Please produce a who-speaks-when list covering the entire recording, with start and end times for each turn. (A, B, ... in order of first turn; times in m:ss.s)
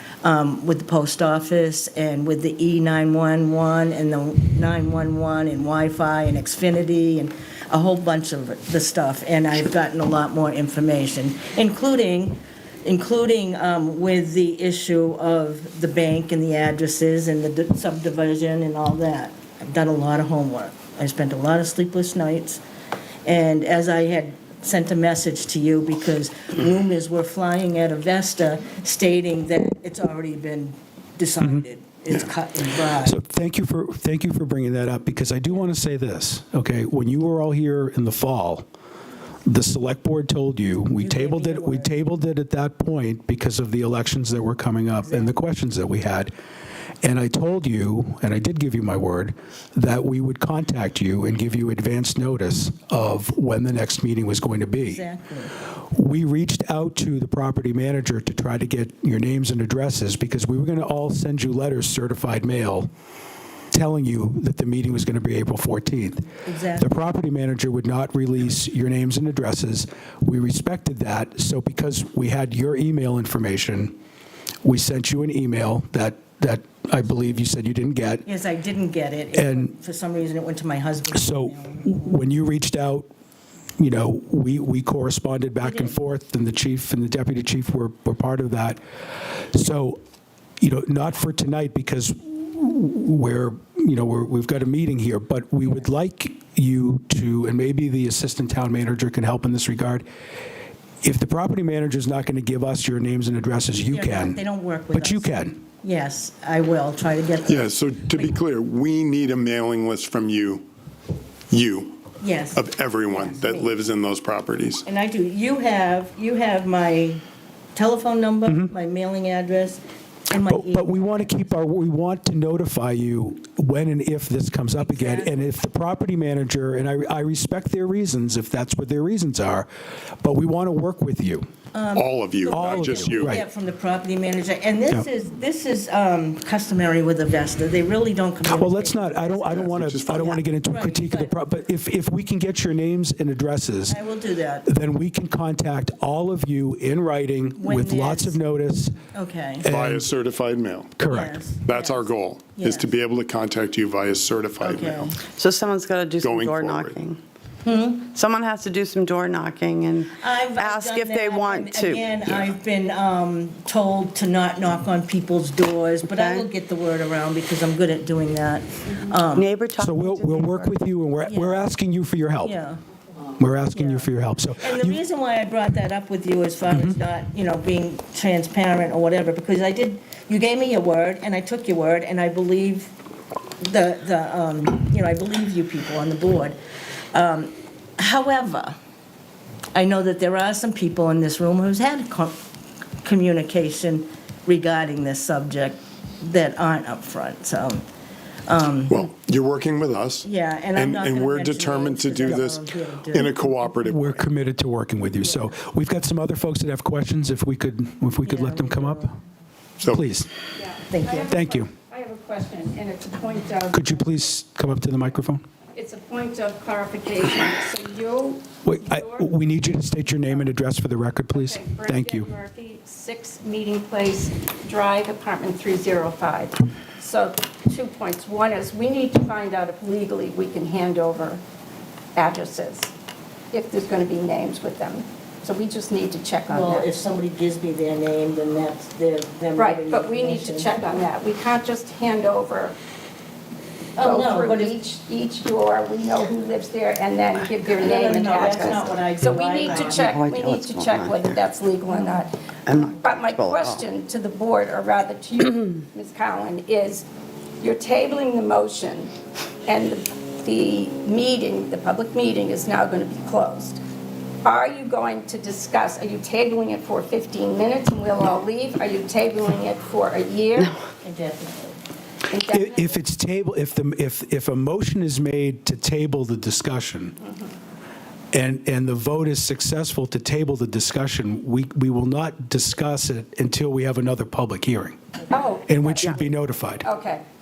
0:00.2-0:22.6 A
0:23.2-0:33.2 A
0:33.0-0:38.6 B
0:39.4-0:46.3 B
0:40.9-0:41.9 A
0:45.0-0:45.3 A
0:47.0-0:55.0 B
0:54.8-0:55.5 A
0:55.9-1:02.9 B
1:03.7-1:13.9 B
1:06.4-1:07.0 A
1:14.6-1:18.2 B
1:18.2-1:22.2 A
1:19.3-1:19.7 B
1:21.1-1:23.1 B
1:23.8-1:28.8 B
1:25.6-1:25.9 A
1:29.3-1:30.0 B
1:30.6-1:40.0 B
1:41.0-1:44.4 B
1:43.9-1:45.3 A
1:44.9-1:45.6 B
1:45.8-1:48.3 A
1:47.5-1:50.6 C
1:51.5-1:52.0 C
1:52.2-1:53.7 A
1:52.5-1:54.8 C
1:54.8-1:57.2 A
1:57.7-2:01.4 A
2:00.4-2:09.7 B
2:04.8-2:05.4 A
2:10.2-2:11.5 B
2:11.7-2:21.4 A
2:11.9-2:13.4 C
2:12.5-2:13.4 B
2:18.5-2:24.0 B
2:19.5-2:20.4 C
2:23.9-2:24.6 A
2:24.6-2:29.0 B
2:27.6-2:28.4 A
2:29.1-2:29.6 A
2:29.6-2:30.0 B
2:29.6-2:31.1 C
2:31.0-2:31.4 B
2:31.0-2:32.9 A
2:31.6-2:35.1 C
2:34.6-2:35.2 A
2:35.2-2:37.2 D
2:36.2-2:37.0 C
2:37.6-2:38.0 A
2:37.9-2:42.3 D
2:40.2-2:49.5 A
2:49.3-2:50.7 D
2:49.8-2:52.6 B
2:51.2-2:51.6 A
2:52.4-2:52.8 A
2:53.4-2:55.0 B
2:53.7-2:54.1 A
2:54.6-3:02.9 A
3:03.6-3:06.6 A
3:07.1-3:08.7 A
3:09.7-3:12.4 A
3:13.0-3:17.8 A
3:18.5-3:19.0 A
3:18.9-3:24.3 C
3:20.2-3:23.4 A
3:23.8-3:29.2 B
3:28.2-3:29.1 A
3:29.9-3:30.3 B
3:30.6-3:33.8 E
3:30.9-3:31.3 A
3:31.3-3:31.7 B
3:33.7-3:35.4 B
3:35.7-3:39.3 E
3:38.6-3:42.3 B
3:41.3-3:51.4 E
3:52.2-3:52.9 E
3:53.5-3:56.9 E
3:56.5-4:00.7 A
3:59.6-4:02.8 E
4:04.0-4:04.8 A
4:04.0-4:12.3 E
4:07.8-4:10.0 A
4:09.7-4:11.4 D
4:12.6-4:13.8 D
4:13.0-4:17.1 E
4:17.6-4:19.1 E
4:19.6-4:23.8 E
4:24.4-4:30.8 E
4:31.0-4:31.8 A
4:32.3-4:33.0 E
4:32.5-4:37.1 B
4:38.3-4:45.0 B
4:45.3-4:46.2 E
4:45.7-4:46.8 B
4:46.8-4:47.2 E